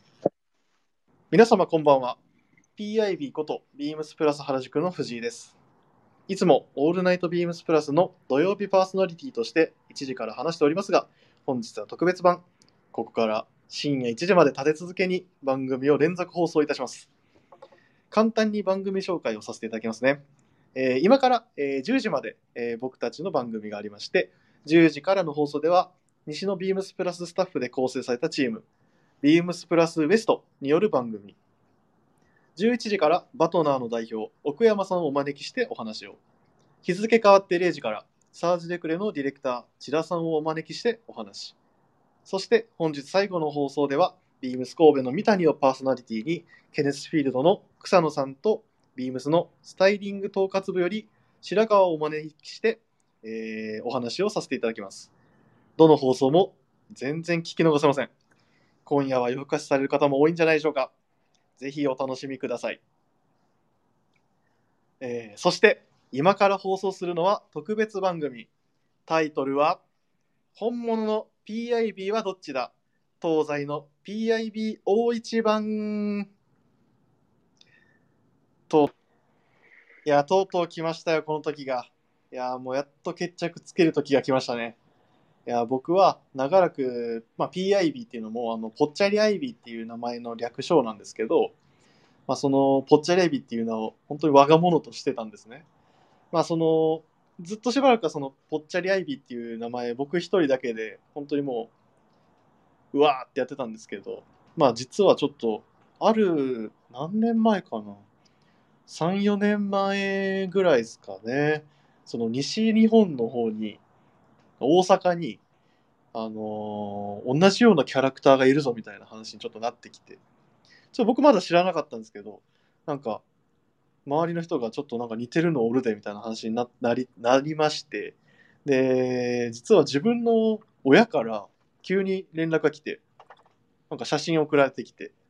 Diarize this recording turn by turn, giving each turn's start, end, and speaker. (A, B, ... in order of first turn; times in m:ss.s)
0:01.3-0:02.2 A
0:02.8-0:05.5 A
0:06.3-0:17.1 A
0:18.1-0:20.2 A
0:20.7-0:28.6 A
0:29.2-0:31.4 A
0:32.6-0:36.2 A
0:36.8-0:41.5 A
0:42.2-0:55.1 A
0:55.8-0:58.1 A
0:58.8-1:00.9 A
1:01.6-1:02.8 A
1:05.0-1:08.5 A
1:09.1-1:09.8 A
1:10.5-1:16.3 A
1:20.0-1:24.8 A
1:25.4-1:31.5 A
1:32.3-1:35.6 A
1:36.3-1:41.7 A
1:42.9-1:48.0 A
1:48.9-1:53.8 A
1:54.6-1:55.4 A
1:56.1-2:00.2 A
2:00.9-2:03.2 A
2:04.0-2:13.0 A
2:13.9-2:15.1 A